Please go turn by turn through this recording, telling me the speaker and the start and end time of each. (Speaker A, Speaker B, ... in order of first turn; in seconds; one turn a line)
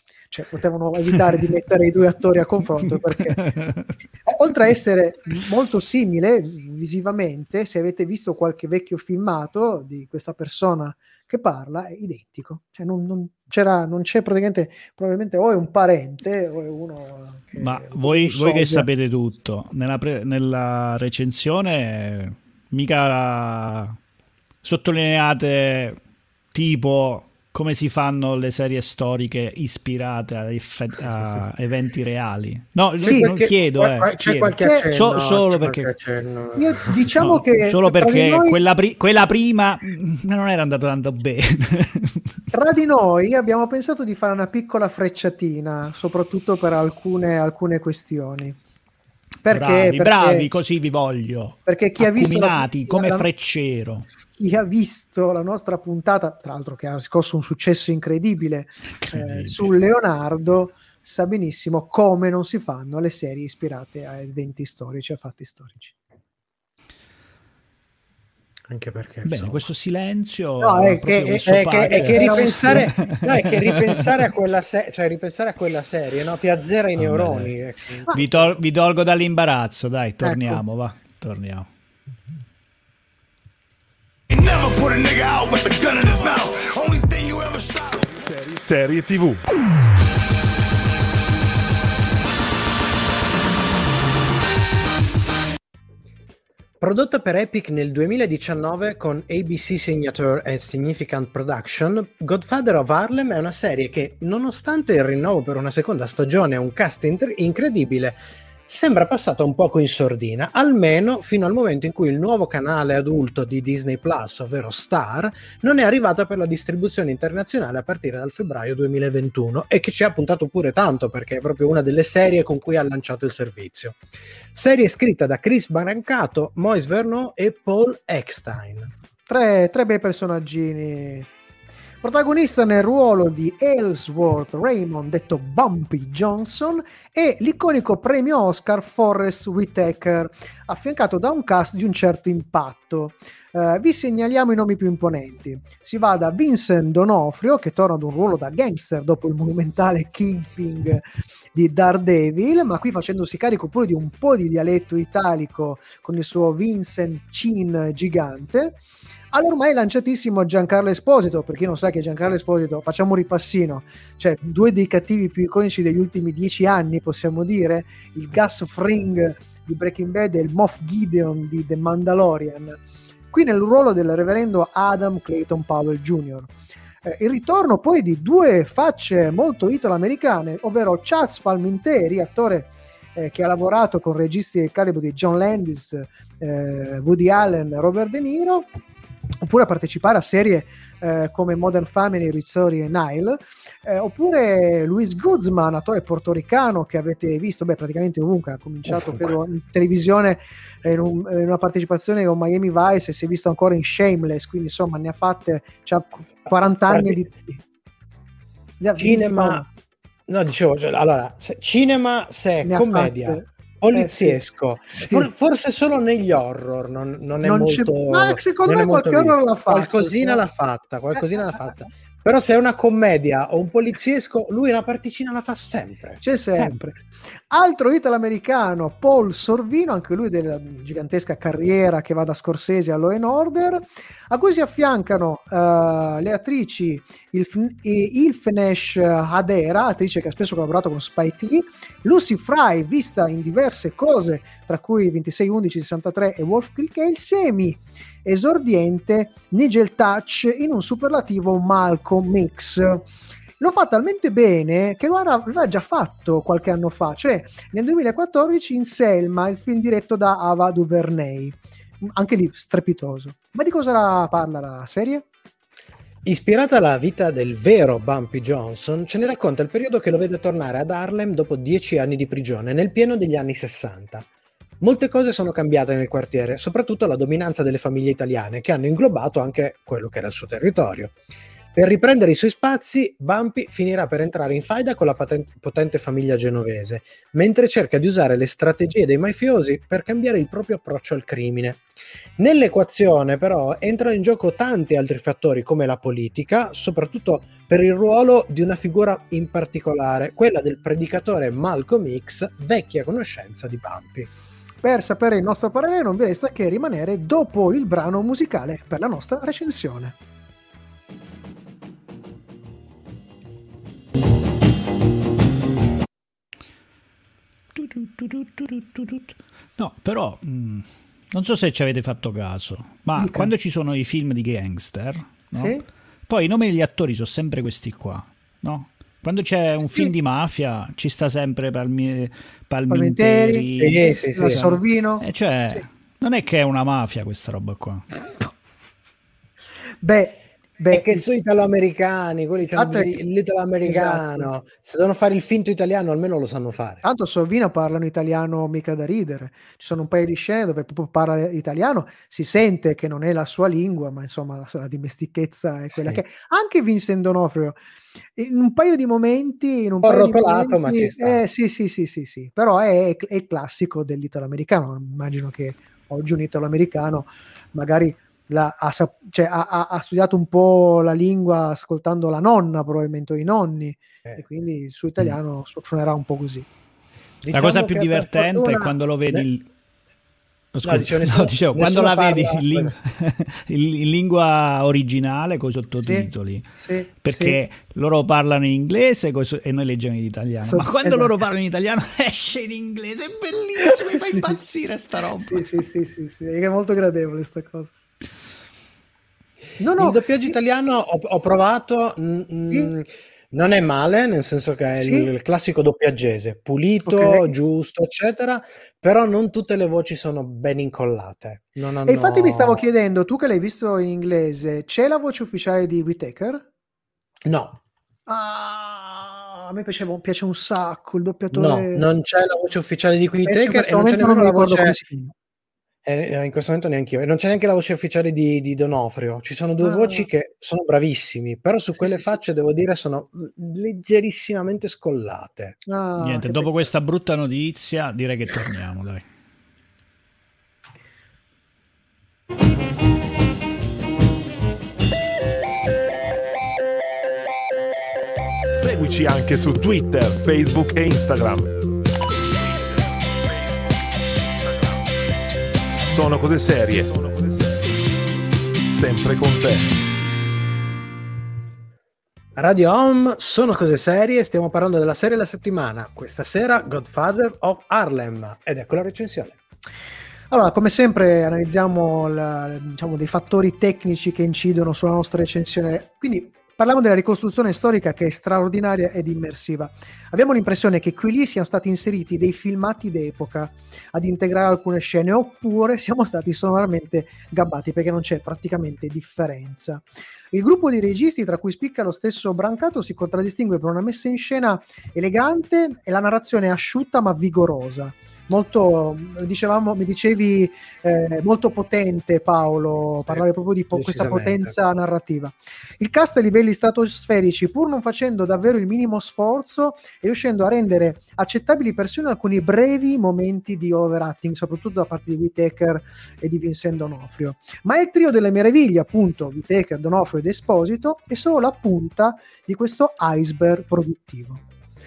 Speaker A: 0.2-3.5
Speaker B: 3.4-3.9
Speaker A: 4.3-18.9
Speaker B: 17.6-24.0
Speaker B: 24.6-26.0
Speaker B: 26.5-35.9
Speaker C: 33.0-37.2
Speaker A: 33.0-33.3
Speaker A: 34.6-34.9
Speaker A: 36.6-38.6
Speaker B: 37.2-42.2
Speaker A: 42.5-48.6
Speaker A: 49.5-50.5
Speaker B: 49.5-54.1
Speaker A: 51.7-53.3
Speaker A: 54.4-65.9
Speaker B: 59.0-59.7
Speaker C: 68.7-69.7
Speaker B: 69.2-74.0
Speaker A: 70.6-72.9
Speaker C: 71.5-78.1
Speaker B: 77.0-77.5
Speaker B: 78.1-81.7
Speaker A: 80.2-80.6
Speaker D: 84.3-88.1
Speaker E: 88.3-89.4
Speaker C: 96.8-124.0
Speaker C: 124.5-128.9
Speaker A: 129.3-131.3
Speaker A: 132.0-158.8
Speaker A: 159.3-172.8
Speaker A: 173.3-176.5
Speaker A: 177.0-188.7
Speaker A: 189.4-207.6
Speaker C: 198.9-199.3
Speaker C: 206.9-207.2
Speaker A: 208.8-209.7
Speaker C: 209.0-209.7
Speaker C: 210.3-226.8
Speaker A: 212.6-215.3
Speaker A: 217.4-220.4
Speaker A: 226.2-253.1
Speaker A: 253.6-265.2
Speaker C: 266.2-274.3
Speaker C: 274.8-281.1
Speaker C: 281.8-291.8
Speaker C: 292.4-304.3
Speaker A: 304.8-310.1
Speaker B: 317.8-338.1
Speaker A: 323.2-323.5
Speaker A: 325.5-325.8
Speaker A: 332.9-335.2
Speaker C: 333.8-334.7
Speaker A: 340.0-341.3
Speaker C: 340.9-347.0
Speaker A: 342.8-343.1
Speaker A: 343.8-344.5
Speaker A: 347.0-357.8
Speaker A: 358.4-376.7
Speaker C: 360.0-361.4
Speaker C: 377.4-379.5
Speaker B: 377.5-379.7
Speaker B: 380.7-386.7
Speaker C: 380.8-382.9
Speaker A: 386.0-387.6
Speaker B: 387.2-395.6
Speaker A: 390.6-391.5
Speaker A: 393.9-394.6
Speaker A: 395.4-397.9
Speaker A: 399.8-400.6
Speaker C: 400.0-412.8
Speaker A: 405.0-405.3
Speaker A: 407.0-407.5
Speaker A: 412.1-416.6
Speaker C: 417.5-417.8
Speaker A: 418.3-422.1
Speaker C: 421.5-425.0
Speaker A: 423.5-425.3
Speaker C: 426.0-435.8
Speaker A: 429.8-430.3
Speaker A: 432.0-432.4
Speaker A: 435.9-436.9
Speaker B: 436.2-439.2
Speaker E: 448.7-451.7
Speaker E: 453.5-453.8
Speaker E: 454.4-454.9
Speaker E: 456.0-457.9
Speaker E: 458.9-459.9
Speaker C: 462.6-469.6
Speaker A: 470.5-524.6
Speaker C: 503.3-504.7